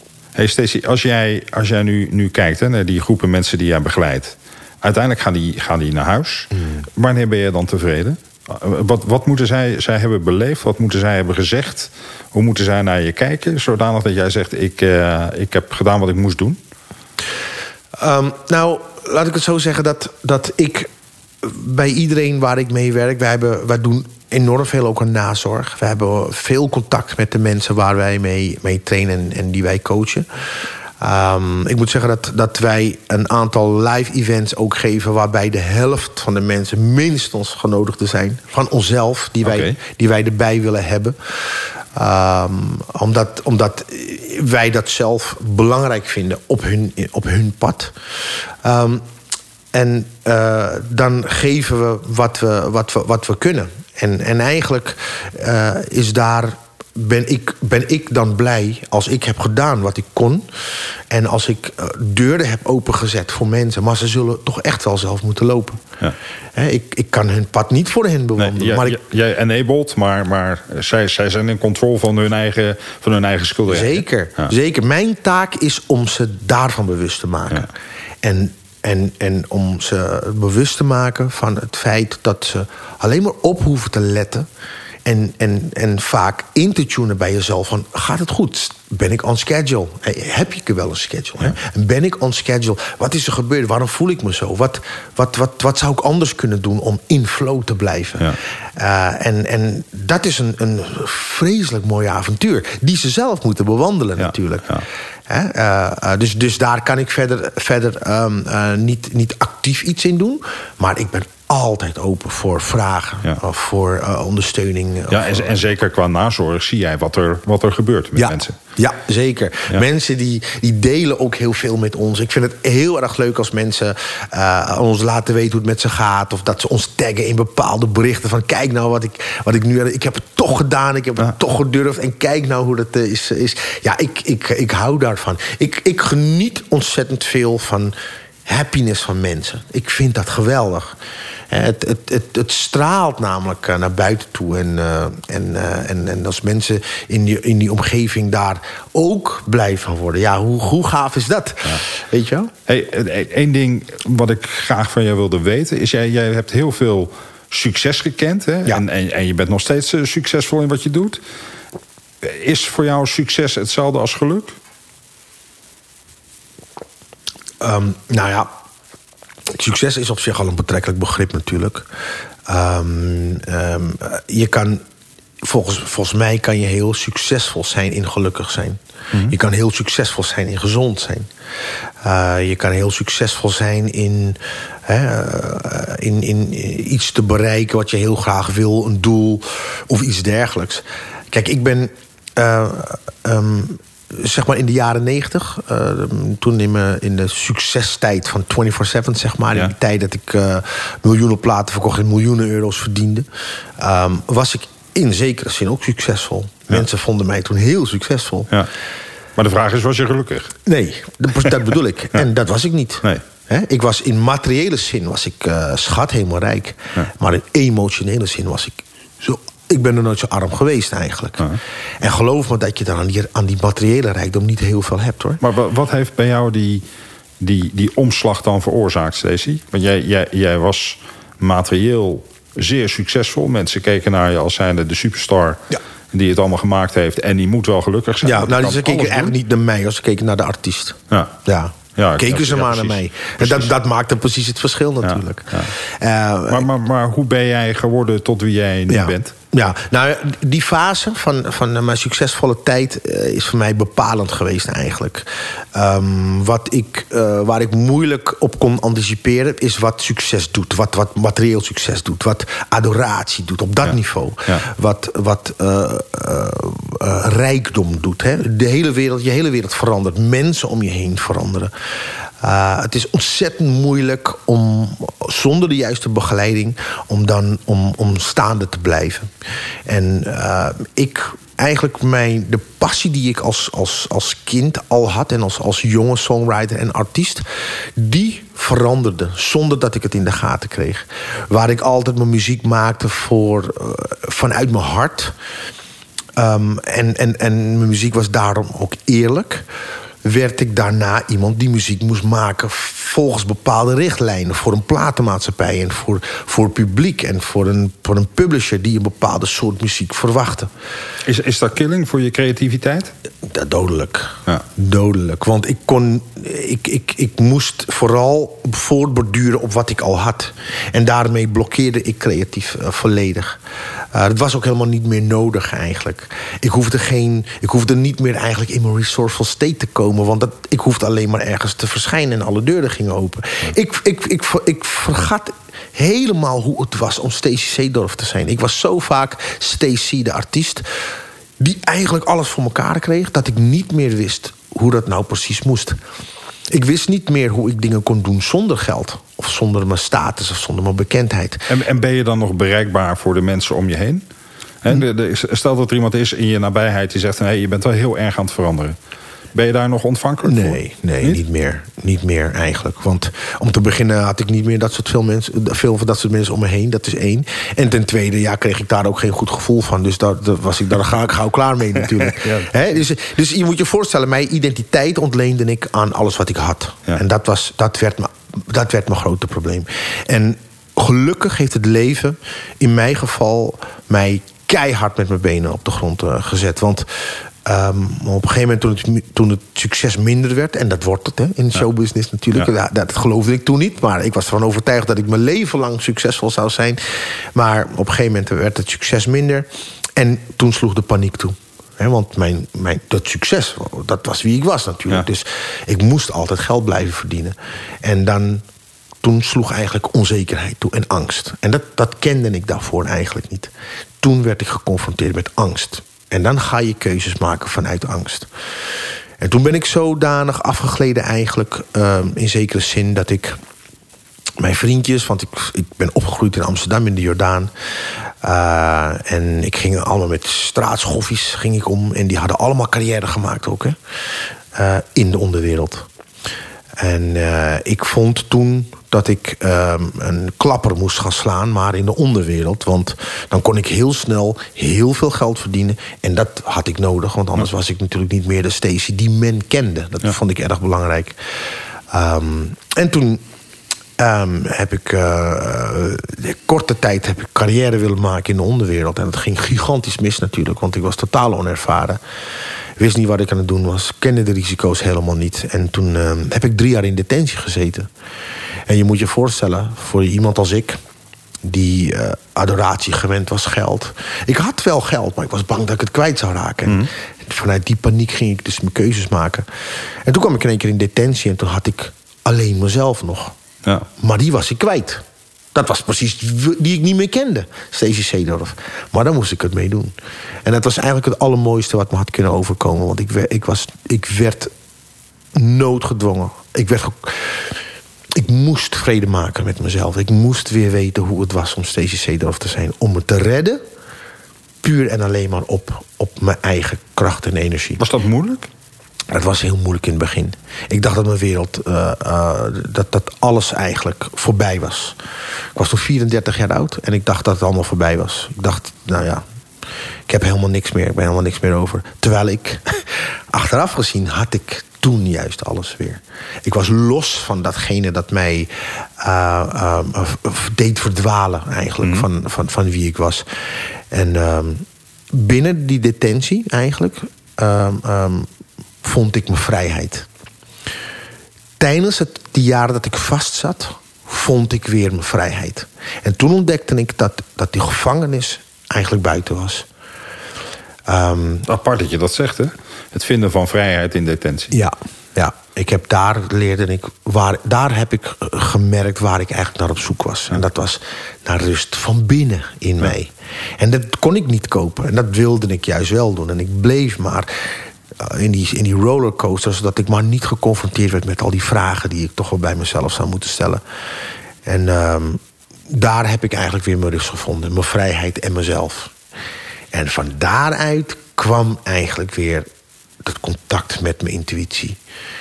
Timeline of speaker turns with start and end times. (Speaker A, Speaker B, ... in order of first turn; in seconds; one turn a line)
Speaker A: 0.3-16.6
Speaker B: 18.0-20.9
Speaker B: 21.4-30.2
Speaker B: 31.0-47.9
Speaker A: 39.4-39.8
Speaker B: 48.6-49.0
Speaker B: 49.7-60.5
Speaker B: 61.1-65.9
Speaker B: 66.5-69.0
Speaker A: 68.4-74.5
Speaker B: 73.7-77.7
Speaker B: 78.2-84.5
Speaker B: 85.0-115.6
Speaker A: 104.2-104.8
Speaker A: 115.1-118.6
Speaker B: 118.2-137.9
Speaker B: 138.4-140.9
Speaker B: 141.5-152.5
Speaker A: 152.7-161.2
Speaker A: 162.2-164.6
Speaker B: 167.6-168.5
Speaker B: 169.5-171.9
Speaker B: 172.5-174.8
Speaker B: 175.4-181.3
Speaker B: 182.0-203.2
Speaker B: 203.8-208.5
Speaker A: 209.4-210.5
Speaker B: 210.7-225.4
Speaker A: 225.4-226.8
Speaker A: 227.4-239.3
Speaker B: 238.2-246.7
Speaker A: 241.9-243.7
Speaker A: 245.0-245.7
Speaker A: 246.5-249.3
Speaker B: 248.9-271.7
Speaker B: 272.4-279.3
Speaker B: 279.9-287.4
Speaker B: 287.9-295.3
Speaker B: 296.4-299.6
Speaker B: 300.2-310.7
Speaker A: 311.2-313.1
Speaker B: 313.4-323.6
Speaker B: 324.1-340.8
Speaker B: 341.6-346.0
Speaker B: 346.7-351.7
Speaker A: 351.7-354.2
Speaker A: 354.8-358.9
Speaker A: 359.5-361.4
Speaker B: 360.4-387.1
Speaker A: 372.2-372.7
Speaker B: 387.6-397.0
Speaker B: 397.5-408.6
Speaker B: 409.2-418.5
Speaker B: 419.4-423.6
Speaker B: 424.6-427.7
Speaker B: 428.4-433.9
Speaker B: 434.7-436.1
Speaker B: 437.0-451.4
Speaker B: 452.1-453.4
Speaker B: 454.2-462.2
Speaker B: 463.0-468.1
Speaker B: 468.9-471.0
Speaker B: 471.6-479.6
Speaker B: 480.2-483.5
Speaker B: 484.2-485.2
Speaker B: 485.7-490.1
Speaker B: 490.6-494.7
Speaker B: 495.5-497.6
Speaker B: 498.4-503.8
Speaker B: 504.8-508.0
Speaker A: 508.0-508.7
Speaker B: 509.3-515.1
Speaker B: 515.8-519.4
Speaker B: 520.3-533.4
Speaker B: 534.1-538.5
Speaker B: 539.0-540.3
Speaker B: 541.8-549.9
Speaker B: 551.0-551.7
Speaker A: 551.7-554.7
Speaker B: 554.7-567.7
Speaker B: 568.2-573.8
Speaker B: 574.6-579.1
Speaker B: 579.9-582.6
Speaker B: 583.2-585.0